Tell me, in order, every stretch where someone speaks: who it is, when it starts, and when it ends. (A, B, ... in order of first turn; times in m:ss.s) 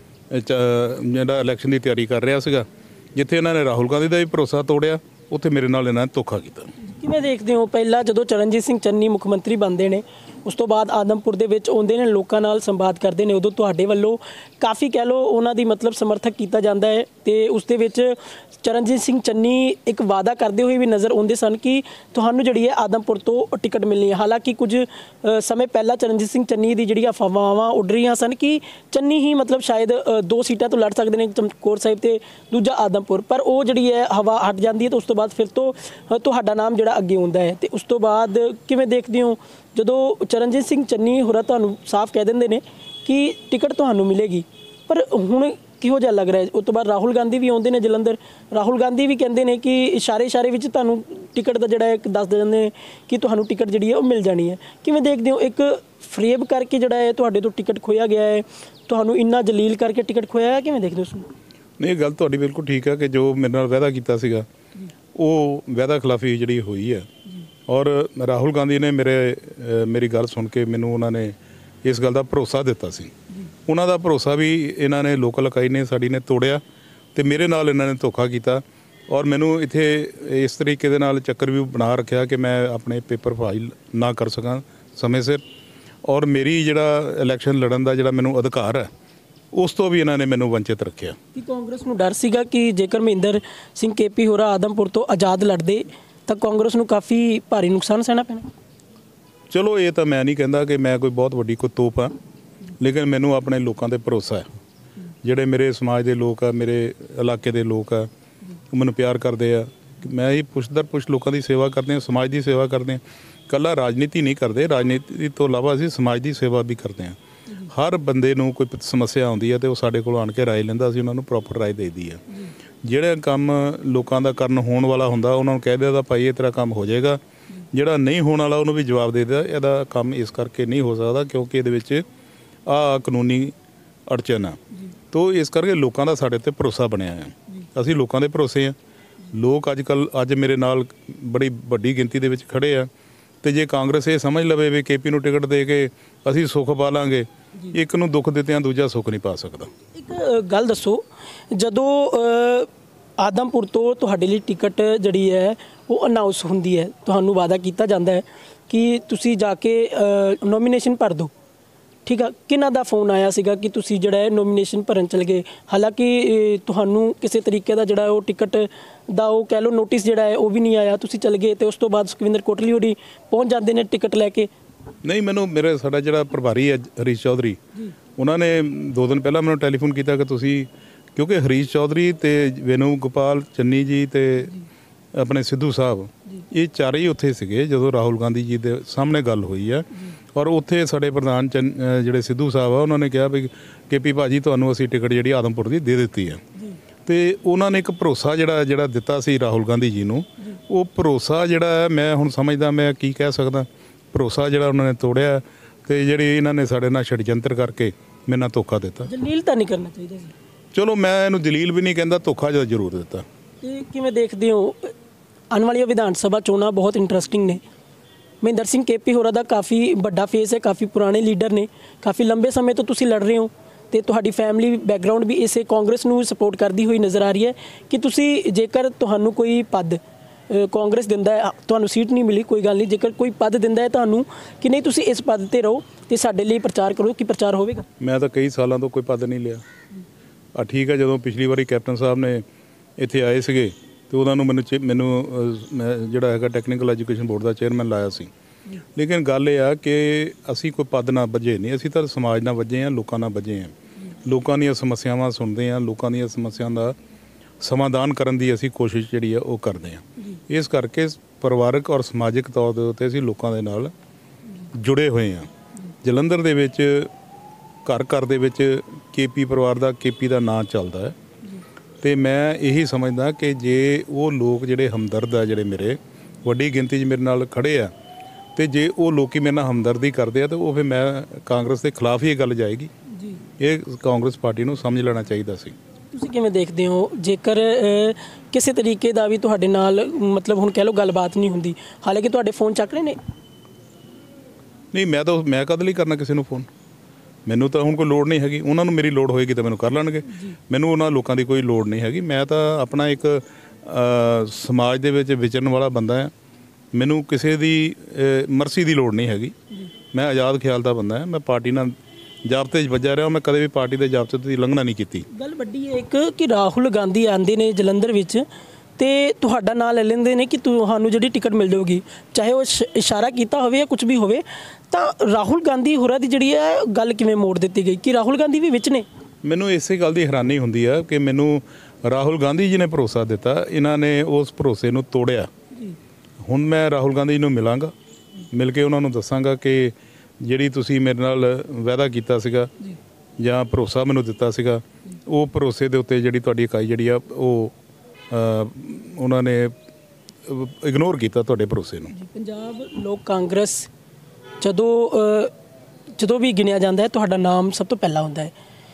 0:00.3-0:06.7 A
0:06.8-1:01.3 B
1:01.8-1:04.4 A
1:05.1-1:07.1 A
1:07.7-1:13.1 A
1:13.7-1:16.6 A
1:17.1-1:25.4 A
1:26.0-1:28.9 A
1:29.5-1:31.2 A
1:31.3-1:38.5 B
1:39.5-1:42.1 A
1:42.8-1:44.5 A
1:45.2-1:48.1 A
1:48.7-2:02.2 A
2:02.8-2:07.2 A
2:07.7-2:12.0 A
2:12.7-2:13.6 A
2:14.1-2:14.6 A
2:15.1-2:18.8 A
2:19.3-2:22.9 A
2:23.4-2:29.7 A
2:29.9-2:41.3 B
2:42.1-2:54.5 B
2:55.0-2:57.6 A
2:58.2-3:04.6 A
3:05.1-3:16.4 A
3:17.1-3:29.1 A
3:29.1-3:30.3 B
3:30.7-3:33.2 A
3:33.6-3:34.9 B
3:35.5-3:37.6 B
3:38.4-3:57.9 B
3:58.0-3:59.6 A
4:00.6-4:02.4 A
4:03.0-4:08.3 A
4:09.0-4:17.0 A
4:17.6-4:23.9 A
4:24.7-4:25.5 A
4:26.0-4:27.1 A
4:27.8-4:31.2 A
4:32.0-4:37.9 A
4:38.6-4:42.9 A
4:43.6-4:45.8 A
4:46.1-4:53.2 B
4:54.9-4:56.7 A
4:57.5-5:06.3 A
5:06.9-5:09.5 A
5:10.1-5:12.0 A
5:12.5-5:15.2 A
5:15.3-5:18.4 B
5:19.0-5:29.0 B
5:29.4-5:35.5 A
5:36.5-5:37.9 A
5:38.5-5:42.7 A
5:43.4-5:47.7 A
5:48.3-5:49.8 A
5:50.5-5:52.1 A
5:52.1-5:53.9 B
5:54.6-5:55.5 B
5:56.2-5:58.5 B